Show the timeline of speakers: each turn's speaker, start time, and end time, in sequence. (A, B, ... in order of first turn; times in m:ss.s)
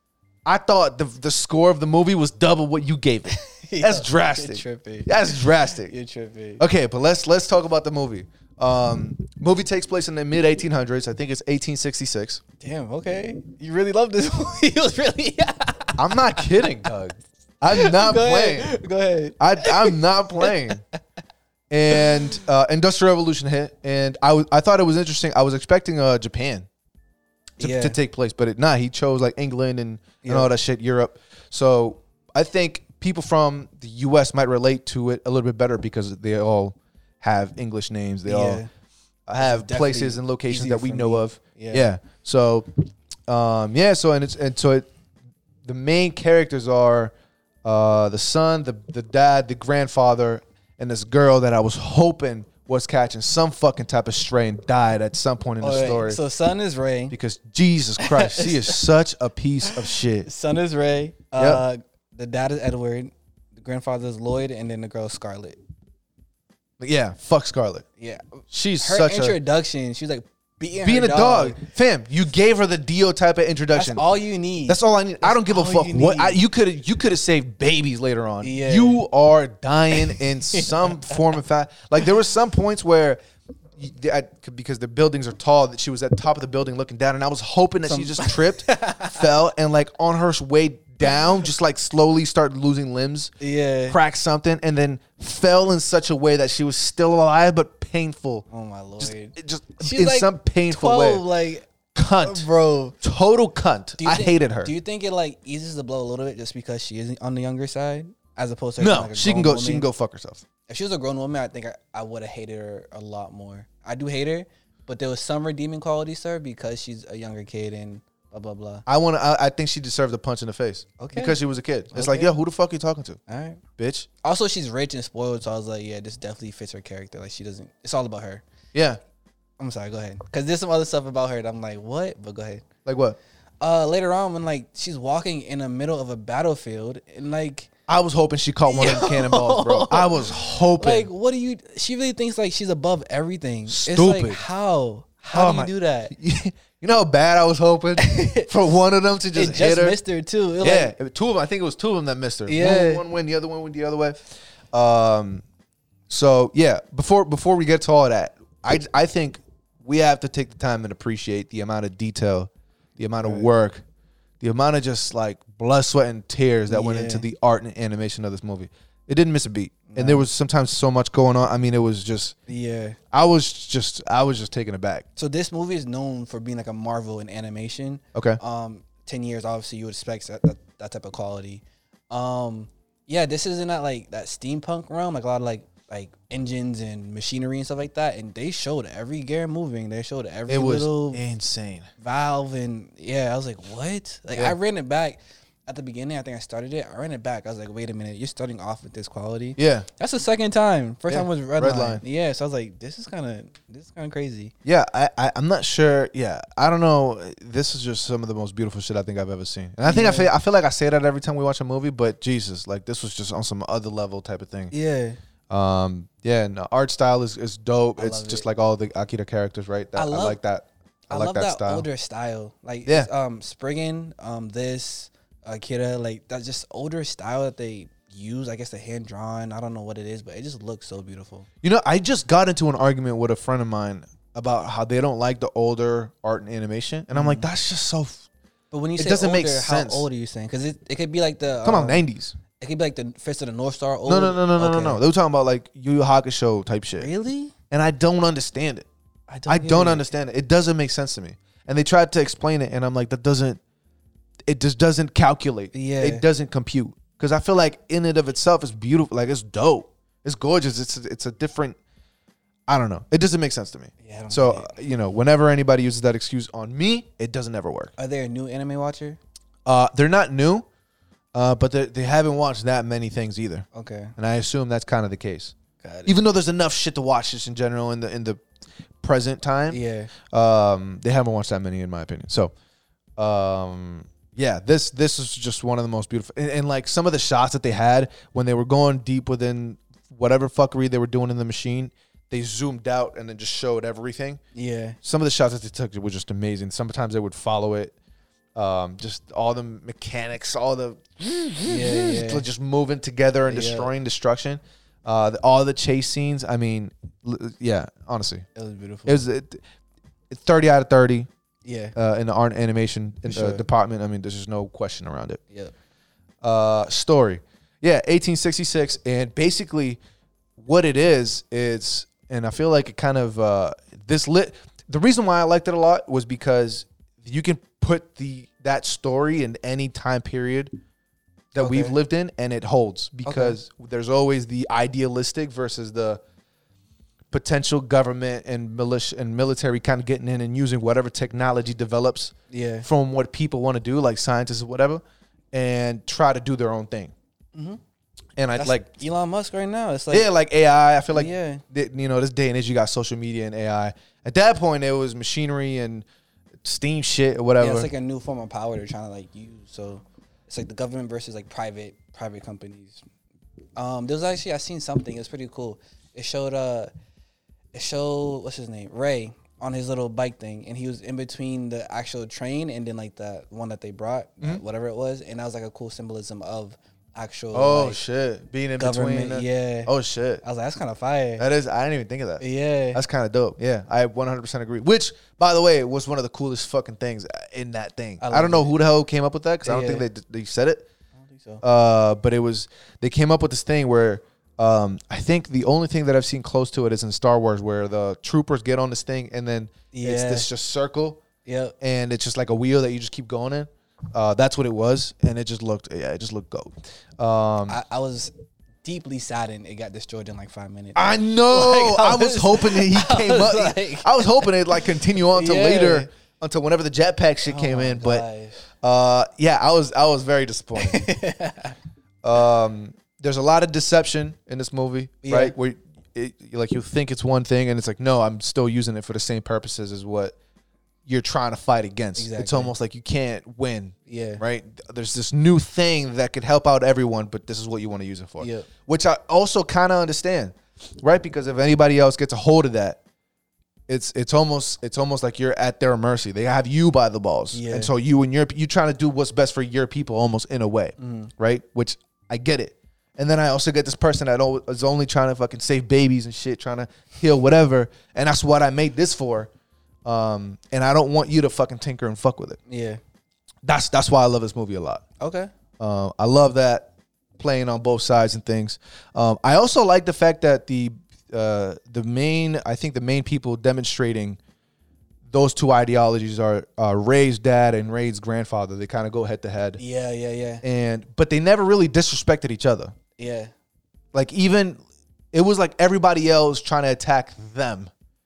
0:00.4-0:05.9 A
0:03.3-0:06.6 B
0:06.6-0:12.4 A
0:12.6-0:16.9 B
0:16.0-0:18.7 A
0:17.7-0:20.7 B
0:19.4-0:20.8 A
0:21.7-0:26.7 A
0:21.9-0:22.3 B
0:27.6-0:28.0 B
0:27.6-0:38.6 A
0:30.2-0:30.5 B
0:38.2-0:38.7 B
0:39.3-0:42.7 A
0:39.4-0:41.8 B
0:43.3-0:44.9 A
0:45.6-0:47.1 A
0:47.6-0:56.2 A
0:55.6-0:57.1 B
0:57.1-1:00.3 A
0:58.0-0:58.8 B
0:59.6-1:05.6 B
1:01.4-1:01.6 A
1:06.8-1:07.8 A
1:08.0-1:11.6 B
1:08.5-1:09.4 A
1:10.8-1:14.0 A
1:13.7-1:16.4 B
1:14.7-1:23.2 A
1:18.4-1:19.0 B
1:20.0-1:21.2 B
1:23.8-1:33.3 A
1:27.9-1:29.3 B
1:33.4-1:34.0 B
1:33.9-1:38.4 A
1:38.5-1:41.7 B
1:39.0-1:41.2 A
1:41.9-1:42.5 A
1:42.2-1:43.0 B
1:43.0-1:44.7 A
1:44.0-1:49.9 B
1:48.8-1:50.4 A
1:50.7-1:58.8 B
1:58.9-2:03.2 A
2:01.0-2:01.4 B
2:01.9-2:02.3 B
2:03.3-2:03.6 B
2:03.8-2:04.1 A
2:04.2-2:08.4 B
2:08.7-2:09.0 A
2:09.6-2:12.6 B
2:12.8-2:13.2 A
2:13.6-2:17.7 B
2:17.9-2:21.1 A
2:18.7-2:26.1 B
2:23.7-2:24.4 A
2:25.3-2:30.0 A
2:28.0-2:28.5 B
2:29.3-2:30.9 B
2:30.6-2:35.4 A
2:32.4-2:33.0 B
2:36.1-2:43.8 A
2:43.2-2:43.5 B
2:44.4-2:52.4 A
2:46.7-2:47.2 B
2:49.9-2:50.3 B
2:52.5-2:53.0 B
2:53.1-2:55.0 A
2:55.2-3:11.2 B
3:10.5-3:11.9 A
3:12.0-3:24.5 B
3:19.6-3:19.9 A
3:21.1-3:22.0 A
3:24.6-3:34.7 A
3:29.8-3:30.3 B
3:34.7-3:35.2 B
3:35.5-3:41.8 A
3:38.0-3:38.5 B
3:39.9-3:40.4 B
3:41.1-3:51.5 B
3:51.6-3:58.2 A
3:57.1-3:57.5 B
3:58.7-4:02.0 B
3:59.0-4:00.1 A
4:01.6-4:02.4 A
4:02.6-4:05.0 B
4:04.0-4:07.1 A
4:07.0-4:07.5 B
4:07.7-4:08.9 A
4:09.3-4:10.0 B
4:09.5-4:13.6 A
4:14.5-4:21.8 A
4:15.7-4:16.2 B
4:22.7-4:27.9 A
4:24.0-4:24.8 B
4:28.0-4:29.2 B
4:29.6-4:30.6 A
4:31.3-4:33.6 A
4:33.7-4:34.1 B
4:34.2-4:35.5 A
4:35.8-4:36.2 B
4:36.0-4:38.4 A
4:39.0-4:42.5 A
4:39.7-4:40.1 B
4:43.2-4:54.4 A
4:54.5-4:55.0 B
4:55.0-4:57.9 A
4:58.5-5:08.4 A
5:01.6-5:02.4 B
5:03.5-5:03.9 B
5:08.5-5:09.2 B
5:09.0-5:09.6 A
5:10.3-5:11.3 A
5:11.6-5:11.9 B
5:11.9-5:15.4 A
5:13.3-5:13.6 B
5:16.4-5:20.0 A
5:20.6-5:30.7 A
5:31.5-5:36.2 A
5:31.6-5:32.0 B
5:33.2-5:33.6 B
5:37.3-5:47.1 A
5:42.5-5:42.9 B
5:47.5-5:47.8 B
5:48.4-5:48.9 A
5:48.6-5:50.3 B
5:50.1-5:56.0 A
5:51.1-5:51.6 B
5:56.6-5:57.9 A
5:57.6-6:03.0 B
6:03.8-6:06.9 B
6:07.7-6:18.0 B
6:17.5-6:20.4 A
6:18.8-6:19.9 B
6:20.4-6:21.4 B
6:21.4-6:30.9 A
6:22.4-6:23.0 B
6:28.2-6:28.7 B
6:29.6-6:30.0 B
6:31.2-6:31.6 B
6:31.6-6:41.2 A
6:39.9-6:40.5 B
6:41.4-6:41.7 B
6:41.8-6:47.8 A
6:47.7-6:48.3 B
6:48.8-6:54.5 B
6:50.9-6:58.2 A
6:55.3-6:56.1 B
6:57.4-6:58.7 B
6:58.8-7:01.1 A
7:00.8-7:01.8 B
7:02.2-7:10.3 A
7:05.2-7:05.5 B
7:11.0-7:23.0 A
7:12.2-7:12.7 B
7:14.1-7:14.4 B
7:18.4-7:18.7 B
7:23.9-7:39.5 A
7:27.5-7:27.9 B
7:31.0-7:31.3 B
7:40.0-7:42.6 A
7:42.7-7:43.0 B
7:43.6-7:45.0 A
7:45.2-7:45.5 B
7:45.8-7:54.4 A
7:55.3-7:59.8 A
7:59.8-8:00.6 B
8:00.6-8:02.9 A
8:03.2-8:03.5 B
8:04.1-8:07.9 A